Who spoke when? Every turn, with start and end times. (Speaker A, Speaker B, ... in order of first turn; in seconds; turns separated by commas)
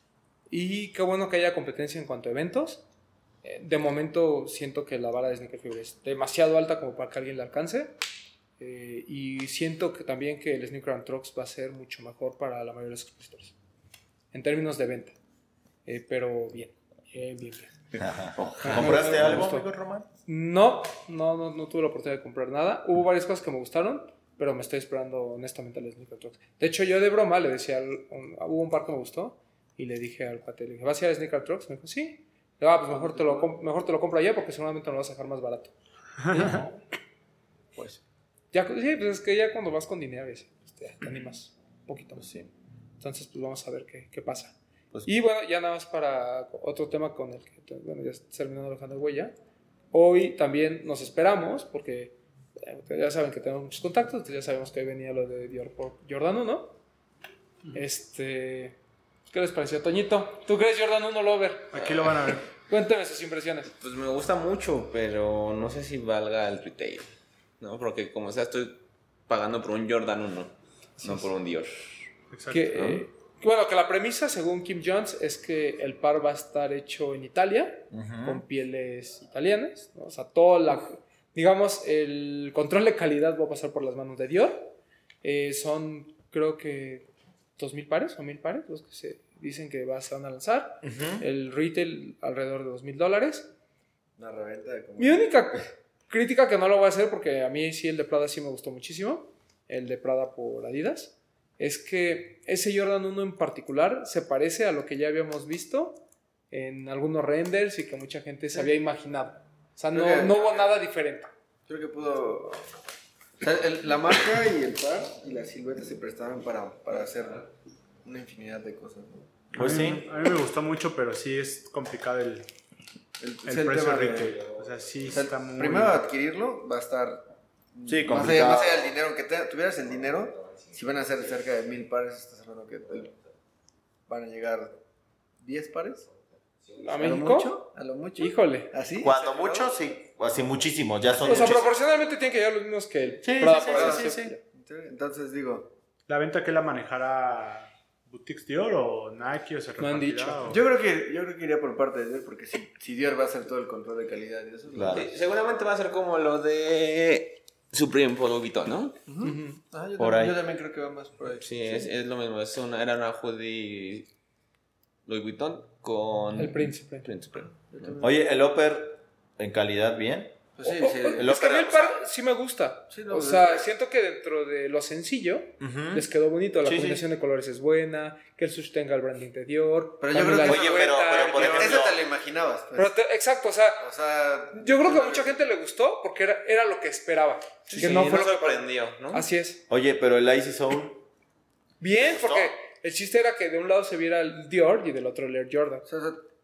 Speaker A: 0.5-2.8, Speaker A: 3.4-8.0, Speaker A: 8.6-13.6, Speaker A: 14.3-15.2, Speaker A: 15.9-17.8, Speaker B: 17.9-19.4, Speaker C: 18.0-20.1, Speaker A: 18.6-19.7, Speaker A: 20.3-35.7, Speaker D: 32.9-33.5, Speaker E: 36.2-36.6, Speaker A: 36.3-36.8, Speaker A: 38.5-42.4, Speaker A: 43.0-49.3, Speaker A: 49.9-56.8, Speaker A: 57.7-58.8, Speaker A: 59.3-61.8, Speaker E: 61.7-62.5, Speaker A: 62.7-63.7, Speaker B: 63.8-67.1, Speaker B: 67.6-72.1, Speaker A: 71.0-71.3, Speaker E: 72.3-72.8, Speaker A: 72.5-93.5, Speaker B: 72.7-73.1, Speaker C: 77.9-78.4, Speaker C: 90.8-91.2, Speaker D: 94.2-95.5, Speaker A: 95.0-111.3, Speaker D: 109.9-110.8, Speaker D: 111.7-112.6, Speaker D: 113.4-117.5, Speaker D: 118.0-119.3, Speaker E: 119.5-122.5, Speaker C: 119.6-120.0, Speaker D: 123.2-127.2, Speaker E: 123.5-126.1, Speaker D: 127.8-133.2, Speaker C: 127.9-129.0, Speaker D: 134.1-134.8, Speaker D: 135.4-136.1, Speaker A: 136.8-137.6, Speaker D: 136.9-139.7, Speaker A: 138.2-138.7, Speaker C: 139.0-141.7, Speaker A: 141.2-144.4, Speaker C: 143.2-144.3, Speaker D: 143.5-145.7, Speaker E: 146.1-150.6, Speaker A: 149.8-150.5, Speaker D: 150.5-155.1, Speaker C: 154.7-155.1, Speaker B: 154.9-159.0, Speaker D: 159.1-161.9, Speaker A: 159.2-159.6, Speaker C: 160.0-160.4, Speaker B: 161.4-164.1, Speaker B: 165.1-167.9, Speaker A: 166.4-167.1, Speaker D: 167.5-168.2, Speaker C: 168.0-170.4, Speaker D: 170.6-171.3, Speaker A: 170.6-181.7, Speaker C: 171.1-172.0, Speaker D: 172.9-173.7, Speaker C: 175.6-176.1, Speaker C: 176.6-177.0, Speaker D: 180.0-182.9, Speaker C: 180.4-182.0, Speaker A: 182.8-183.8, Speaker D: 183.8-185.4, Speaker A: 184.5-189.6, Speaker B: 187.7-189.3, Speaker C: 189.7-191.0, Speaker A: 191.8-195.8, Speaker C: 192.0-192.5, Speaker D: 195.9-196.2